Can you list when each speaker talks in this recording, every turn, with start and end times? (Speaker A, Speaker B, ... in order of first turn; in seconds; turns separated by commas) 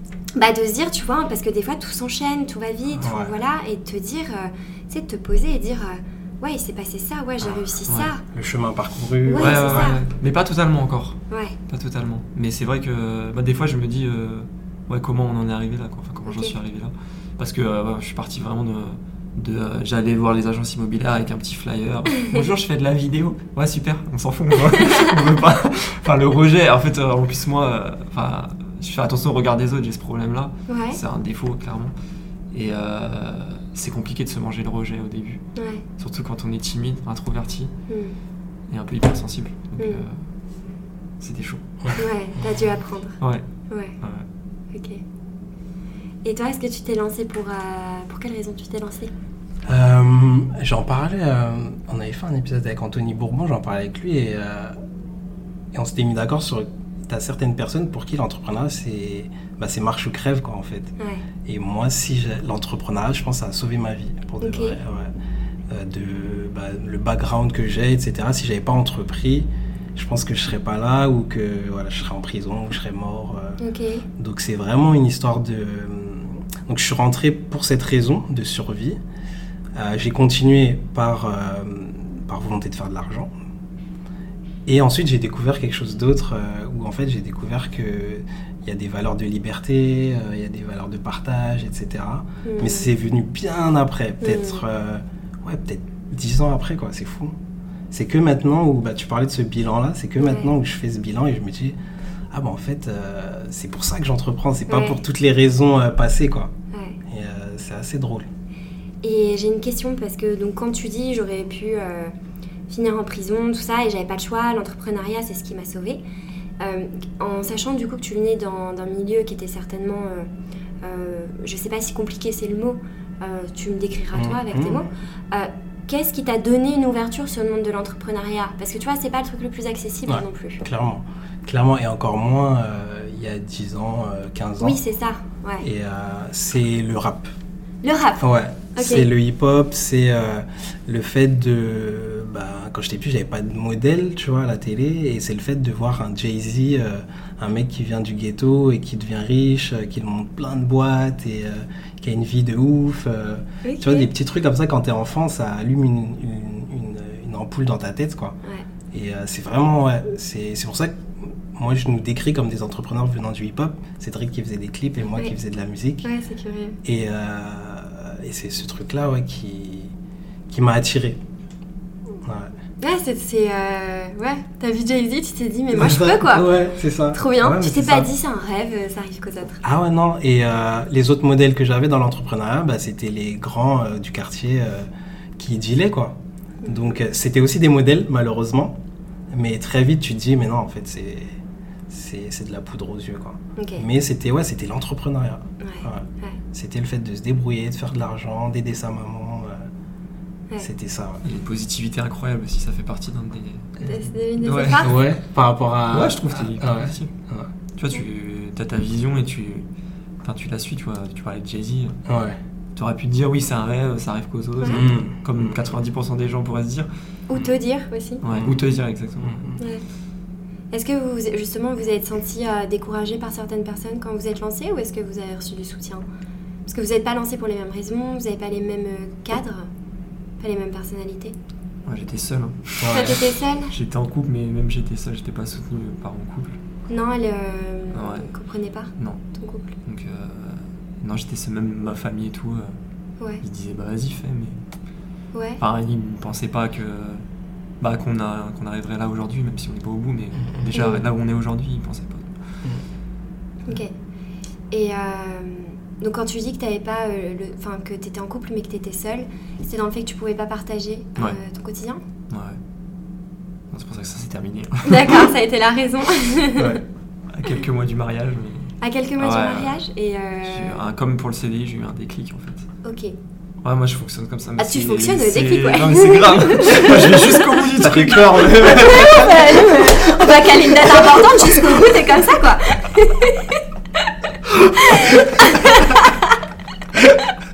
Speaker A: 0.3-8.2, Speaker B: 3.0-3.3, Speaker B: 8.3-9.9, Speaker A: 9.2-10.0, Speaker C: 9.3-31.9, Speaker A: 11.3-11.5, Speaker A: 16.3-16.5, Speaker A: 30.7-31.0, Speaker C: 32.5-35.4, Speaker A: 35.5-35.8, Speaker C: 36.0-37.7, Speaker A: 37.9-38.1, Speaker C: 38.7-40.2, Speaker A: 39.8-40.0, Speaker C: 41.2-42.0, Speaker A: 42.0-43.1, Speaker A: 43.7-43.9, Speaker C: 44.0-44.2, Speaker A: 44.7-45.0, Speaker A: 46.2-49.1, Speaker B: 49.6-54.8, Speaker B: 55.7-60.9, Speaker A: 61.0-61.2, Speaker B: 61.4-65.1, Speaker A: 64.4-64.8, Speaker B: 65.7-73.6, Speaker A: 73.6-74.1, Speaker B: 74.2-79.0, Speaker B: 79.7-83.3, Speaker B: 84.7-97.3, Speaker A: 92.4-92.9, Speaker A: 94.2-94.6, Speaker B: 97.9-101.8, Speaker A: 100.2-100.5, Speaker B: 102.3-106.5, Speaker A: 104.7-105.0, Speaker A: 106.7-107.0, Speaker B: 107.0-108.3, Speaker A: 109.0-112.1, Speaker A: 112.7-116.0, Speaker A: 116.6-120.3, Speaker A: 120.8-130.6, Speaker B: 124.1-124.9, Speaker B: 130.1-134.8, Speaker A: 134.6-135.7, Speaker B: 135.6-137.3, Speaker A: 137.8-139.1, Speaker B: 138.2-158.4, Speaker A: 153.6-154.1, Speaker B: 158.9-166.1, Speaker A: 166.0-166.8, Speaker B: 166.8-169.9, Speaker B: 170.5-171.2, Speaker B: 172.2-172.5, Speaker A: 172.8-176.5, Speaker B: 175.7-178.1, Speaker A: 177.1-179.6, Speaker B: 179.6-188.8, Speaker B: 189.3-191.4, Speaker B: 191.9-199.7, Speaker A: 193.6-193.8, Speaker A: 195.6-196.4, Speaker B: 200.6-201.2, Speaker C: 201.2-204.9, Speaker A: 203.8-204.9, Speaker B: 204.8-207.5, Speaker C: 205.9-207.1, Speaker C: 207.8-209.7, Speaker C: 210.2-212.0, Speaker B: 212.1-212.4, Speaker C: 212.7-217.5, Speaker B: 214.7-215.7, Speaker A: 217.3-218.2, Speaker C: 218.2-219.5, Speaker B: 218.3-218.6, Speaker B: 219.2-219.6, Speaker A: 219.6-219.8, Speaker A: 220.7-226.0, Speaker A: 226.7-229.7, Speaker A: 230.4-231.3, Speaker C: 231.8-236.6, Speaker B: 232.8-233.2, Speaker A: 232.9-233.7, Speaker A: 236.9-239.7, Speaker C: 237.9-238.3, Speaker C: 239.8-242.8, Speaker C: 243.4-244.6, Speaker A: 245.3-245.6, Speaker C: 245.6-247.2, Speaker C: 247.8-252.6, Speaker B: 250.4-250.7, Speaker A: 250.7-251.1, Speaker A: 254.7-262.0, Speaker C: 262.3-262.6, Speaker C: 263.7-265.3, Speaker A: 264.9-266.8, Speaker C: 267.3-269.8, Speaker A: 268.8-270.8, Speaker C: 270.4-272.7, Speaker A: 272.8-273.1, Speaker C: 273.6-279.1, Speaker A: 274.6-277.5, Speaker B: 277.7-282.2, Speaker A: 278.6-286.3, Speaker B: 285.1-285.8, Speaker B: 286.9-287.2